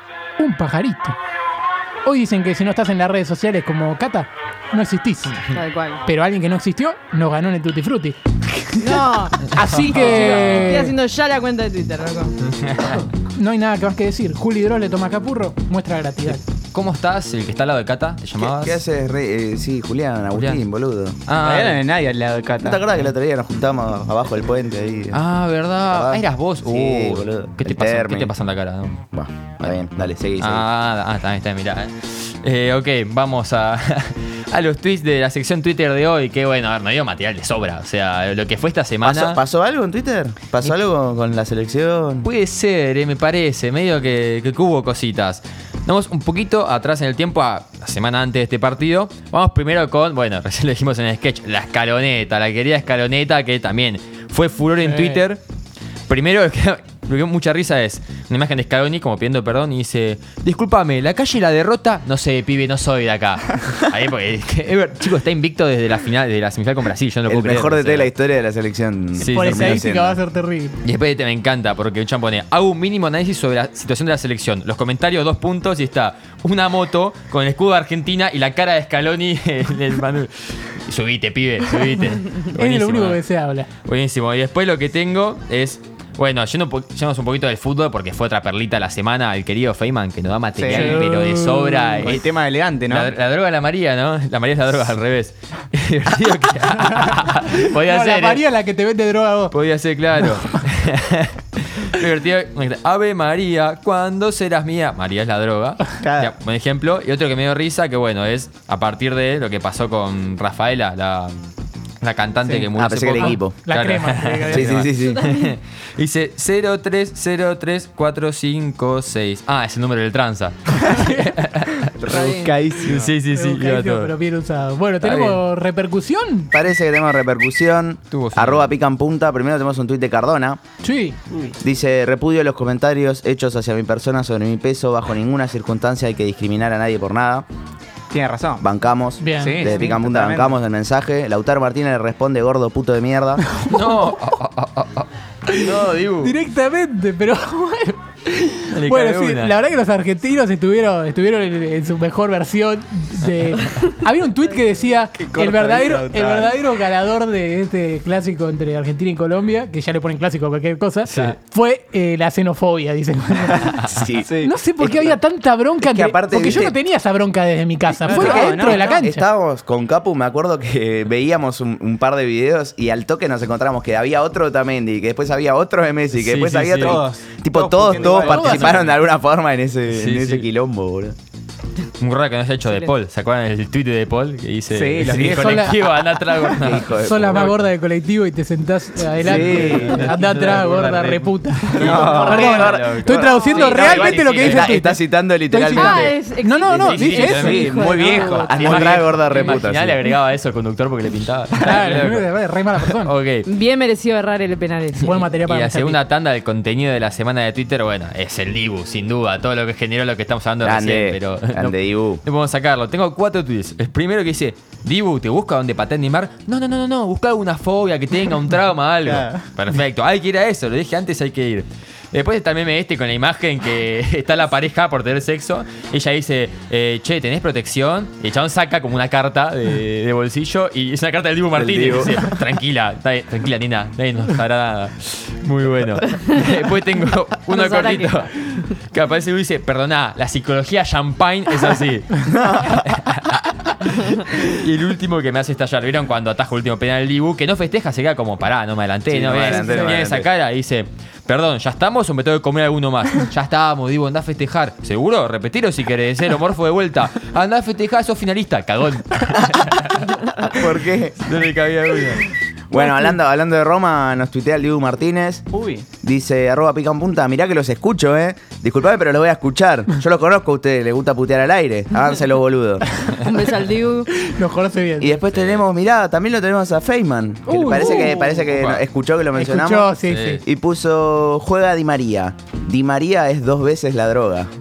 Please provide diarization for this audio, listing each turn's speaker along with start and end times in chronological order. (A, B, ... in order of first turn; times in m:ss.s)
0:00.4-0:01.2 A
0:02.0-0:05.5 A
0:05.5-0:06.0 B
0:06.1-0:10.9 A
0:08.8-0:12.3 B
0:10.0-0:10.6 C
0:12.5-0:13.0 C
0:13.3-0:16.4 A
0:16.7-0:18.8 C
0:18.4-0:21.2 D
0:20.4-0:20.6 C
0:21.3-0:21.8 C
0:21.4-0:22.9 E
0:22.6-0:25.2 D
0:25.1-0:29.0 C
0:25.9-0:28.3 D
0:29.1-0:30.7 D
0:30.4-0:39.4 C
0:39.0-0:42.3 D
0:42.2-0:55.4 C
0:54.9-0:55.2 A
0:56.1-1:08.1 C
1:07.3-1:10.2 D
1:09.2-1:09.9 C
1:09.2-1:10.8 A
1:10.8-1:23.2 C
1:22.6-1:23.7 A
1:23.8-1:32.3 C
1:30.6-1:31.2 E
1:30.7-1:32.1 A
1:31.9-1:33.1 E
1:32.9-1:38.4 C
1:37.7-1:39.6 A
1:39.5-1:51.3 C
1:46.0-1:46.3 E
1:52.0-2:02.2 C
1:52.8-1:53.6 D
1:53.2-1:54.8 A
1:54.5-1:55.3 D
1:55.0-1:55.5 B
2:02.0-2:03.1 E
2:02.1-2:02.6 B
2:02.8-2:04.1 C
2:03.2-2:06.5 A
2:05.0-2:05.4 D
2:06.5-2:10.6 D
2:08.1-2:08.7 C
2:10.8-2:11.2 A
2:11.6-2:17.5 D
2:18.1-2:18.6 E
2:18.6-2:23.4 D
2:19.2-2:19.8 A
2:19.4-2:20.6 E
2:23.6-2:24.1 A
2:23.7-2:26.4 C
2:25.5-2:49.2 A
2:28.7-2:29.5 C
2:33.3-2:33.6 C
2:35.2-2:36.6 E
2:41.1-2:41.4 C
2:43.8-2:45.2 D
2:44.2-2:44.5 E
2:45.8-2:46.8 D
2:48.0-2:48.9 E
2:48.1-3:01.2 D
2:56.2-2:57.0 C
2:56.8-2:58.6 E
2:58.0-2:59.0 C
2:58.2-2:58.7 A
2:59.9-3:00.5 C
3:02.0-3:07.5 C
3:04.7-3:05.8 E
3:05.2-3:05.8 A
3:06.5-3:07.5 D
3:06.9-3:17.9 A
3:09.2-3:14.8 C
3:09.2-3:10.1 E
3:11.7-3:12.4 E
3:11.8-3:16.2 D
3:13.2-3:13.8 B
3:15.7-3:19.5 B
3:16.7-3:17.7 C
3:17.3-3:19.1 E
3:18.4-3:20.0 D
3:18.5-3:22.3 C
3:21.6-3:23.1 A
3:22.8-3:23.5 C
3:23.4-3:25.2 B
3:25.0-3:26.0 A
3:25.1-4:20.7 C
3:30.6-3:32.2 D
3:51.6-3:52.4 D
3:57.5-3:58.7 B
4:02.2-4:02.8 D
4:09.1-4:10.3 D
4:09.4-4:10.0 A
4:20.4-4:21.2 D
4:21.2-4:22.3 C
4:22.7-4:25.4 D
4:25.5-4:25.9 E
4:26.0-4:33.0 D
4:33.2-4:34.1 B
4:34.1-4:35.2 A
4:35.0-4:44.5 D
4:35.3-4:35.6 C
4:37.5-4:38.4 A
4:38.0-4:38.8 C
4:39.3-4:40.4 A
4:40.1-4:40.4 C